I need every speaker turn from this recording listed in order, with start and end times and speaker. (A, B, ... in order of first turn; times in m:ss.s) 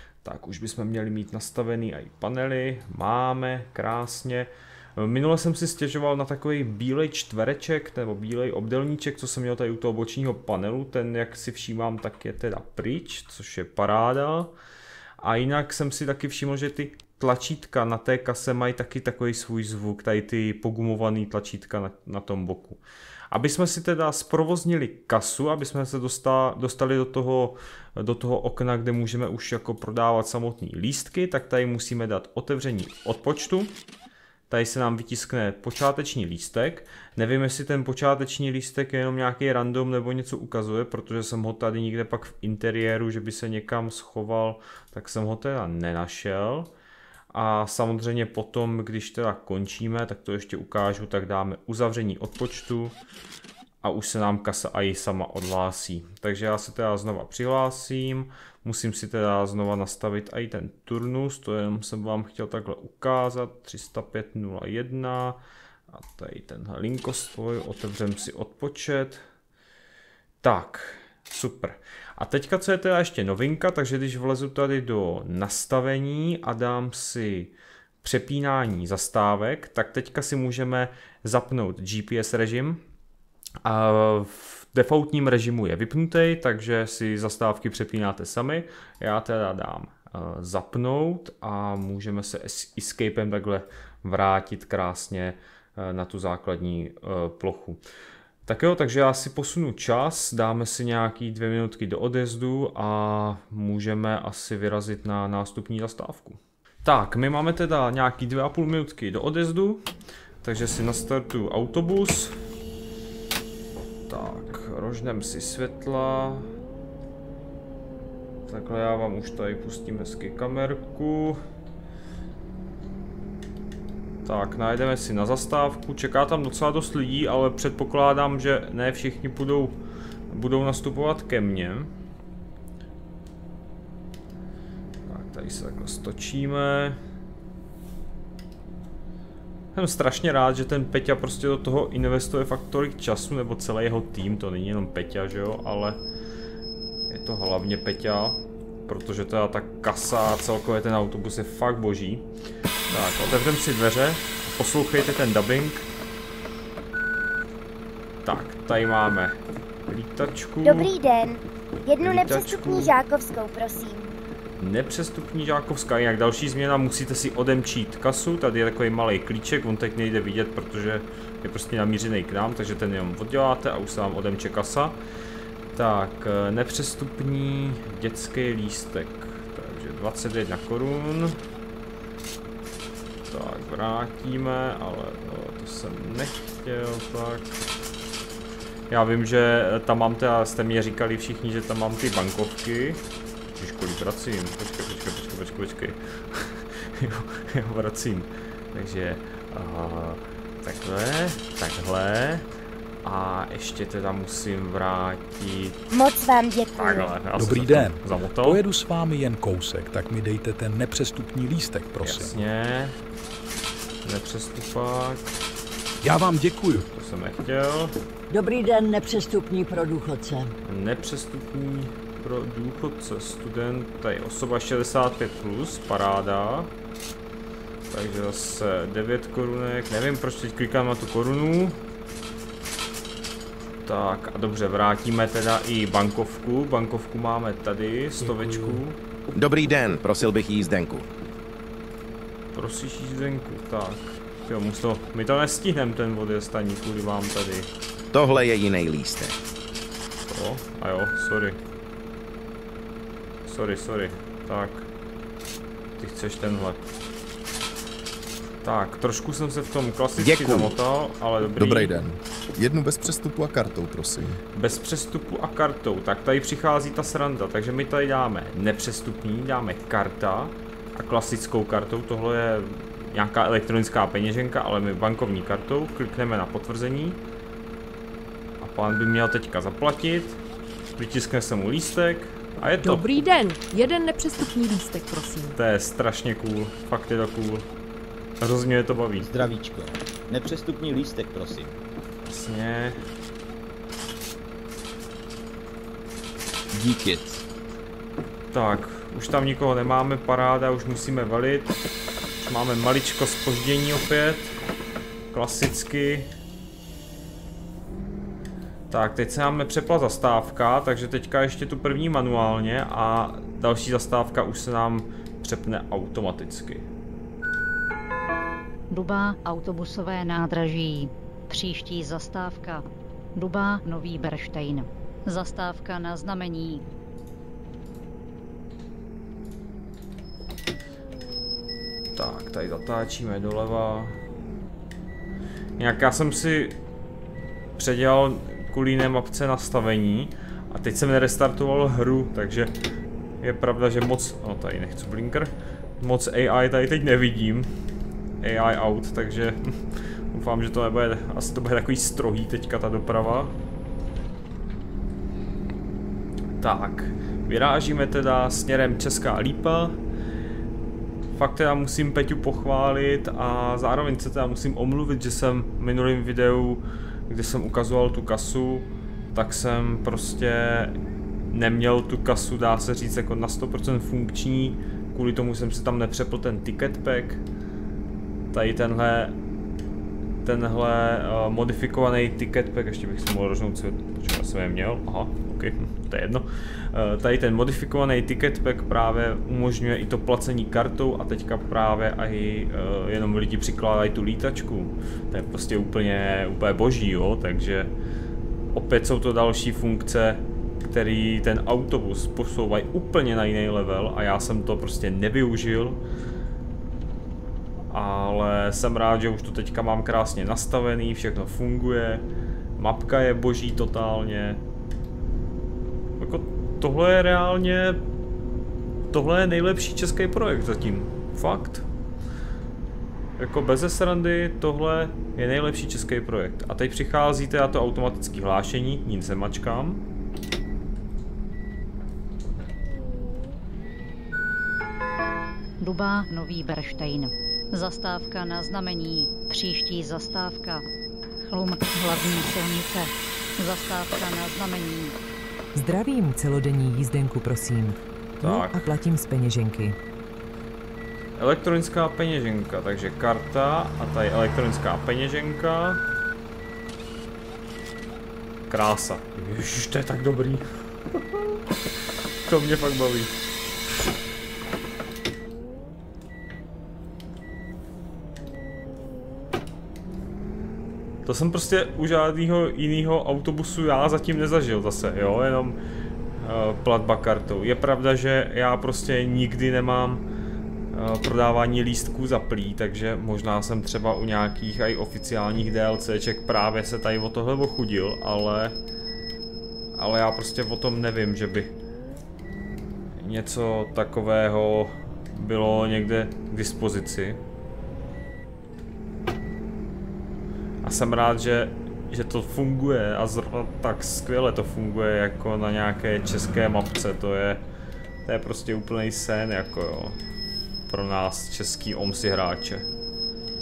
0:00.2-0:14.5 A
0:15.2-0:33.7 A
0:34.5-0:46.7 A
0:47.3-0:52.9 A
0:53.8-1:05.4 A
1:05.9-1:09.2 A
1:10.4-1:22.8 A
1:23.6-1:37.8 A
1:38.4-1:49.8 A
1:50.4-1:52.3 A
1:54.1-1:56.5 A
1:58.5-2:01.4 A
2:04.2-2:09.8 A
2:10.3-2:11.9 A
2:15.0-2:17.0 A
2:19.7-2:26.0 A
2:27.1-2:32.3 A
2:32.9-2:35.9 A
2:38.2-2:39.3 A
2:39.9-2:40.9 A
2:40.6-2:44.1 B
2:42.0-2:42.9 A
2:44.6-2:55.0 A
2:55.7-3:01.4 A
3:03.3-3:07.6 A
3:08.9-3:13.0 A
3:13.5-3:22.5 A
3:23.0-3:25.8 A
3:25.9-3:27.1 B
3:26.8-3:28.6 A
3:27.4-3:32.4 C
3:32.0-3:33.0 A
3:34.0-3:35.4 A
3:36.0-3:36.8 C
3:36.9-3:37.9 A
3:38.3-3:40.5 D
3:40.6-3:46.7 A
3:47.9-3:51.8 A
3:53.8-3:59.0 A
3:58.4-3:58.8 C
3:59.3-4:01.1 E
4:02.5-4:07.7 A
4:08.1-4:09.4 E
4:10.2-4:11.6 A
4:13.4-4:14.9 A
4:16.0-4:16.9 A
4:18.6-4:22.0 A
4:20.2-4:20.7 E
4:21.6-4:24.4 F
4:24.5-4:37.2 A
4:38.6-4:40.4 A
4:41.0-4:43.1 A
4:42.8-4:45.6 G
4:45.6-4:47.6 A
4:48.4-4:49.3 A
4:49.2-4:51.8 H
4:52.2-4:53.0 A
4:56.7-4:57.4 H
4:58.5-5:01.8 A
5:02.4-5:04.6 A
5:05.3-5:06.3 A
5:08.9-5:16.9 A
5:18.9-5:26.8 I
5:32.1-5:34.2 A
5:35.8-5:36.8 A
5:37.8-5:42.7 A
5:43.4-5:47.7 A
5:48.4-5:49.6 A
5:50.3-5:53.5 A
5:56.6-6:00.0 A
6:01.3-6:10.9 A
6:11.5-6:17.4 A
6:18.5-6:19.4 A
6:20.4-6:37.9 A
6:38.7-6:46.0 A
6:47.9-6:52.2 A
6:52.8-6:54.6 A
6:56.2-6:58.0 A
6:59.1-7:01.8 A
7:03.4-7:10.0 A
7:15.8-7:20.8 I
7:21.5-7:25.2 I
7:25.7-7:30.0 J
7:28.4-7:28.9 A
7:31.4-7:36.0 A
7:38.7-7:41.6 A
7:42.4-7:43.3 A
7:51.2-7:55.8 A
7:56.4-8:00.2 A
8:00.9-8:08.8 A
8:09.9-8:11.7 A
8:13.2-8:17.4 A
8:20.8-8:27.6 A
8:28.2-8:30.2 A
8:30.9-8:32.9 A